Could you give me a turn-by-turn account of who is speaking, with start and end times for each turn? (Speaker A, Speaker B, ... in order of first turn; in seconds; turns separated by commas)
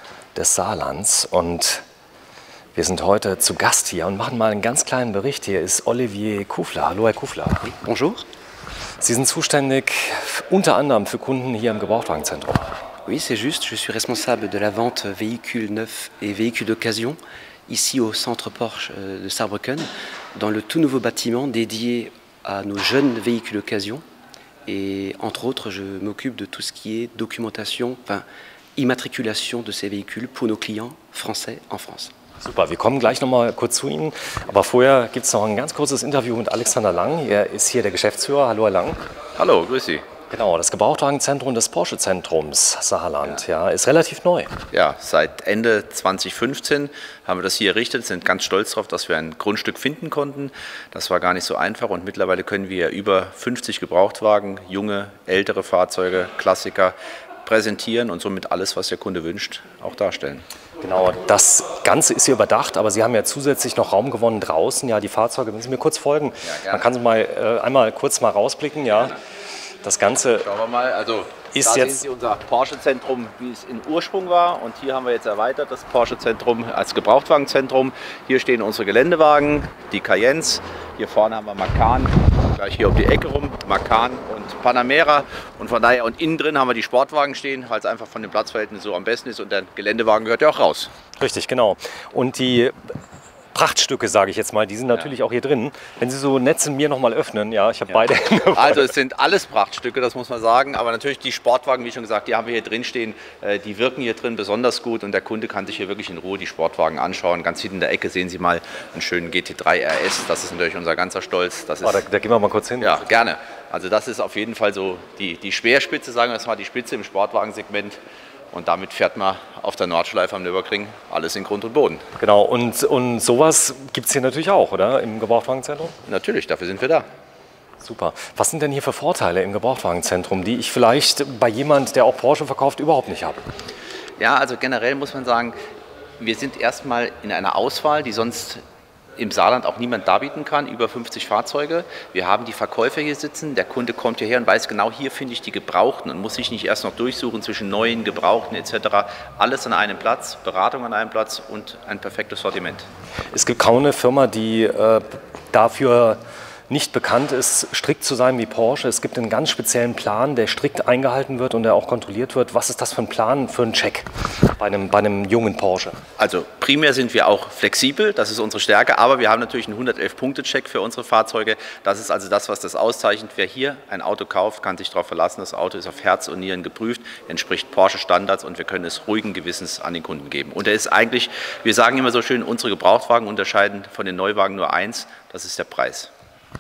Speaker A: 0.3-1.8, Speaker A: 2.8-7.7, Speaker B: 7.6-8.2, Speaker A: 9.0-12.7, Speaker B: 13.1-24.0, Speaker B: 24.7-32.1, Speaker A: 32.4-39.0, Speaker C: 39.4-40.1, Speaker A: 40.3-44.5, Speaker C: 44.7-60.5, Speaker A: 60.8-69.2, Speaker C: 66.5-66.9, Speaker A: 69.8-70.5, Speaker C: 70.4-90.9, Speaker A: 71.5-72.0, Speaker A: 91.2-92.8, Speaker A: 93.5-98.9, Speaker C: 98.5-112.0, Speaker A: 111.8-113.0, Speaker C: 112.8-118.0, Speaker C: 118.5-122.0, Speaker A: 122.2-126.0, Speaker C: 126.1-127.1, Speaker A: 127.8-133.4, Speaker C: 134.2-135.6, Speaker C: 136.2-138.6, Speaker C: 139.2-152.9, Speaker A: 153.3-166.0, Speaker C: 166.2-186.1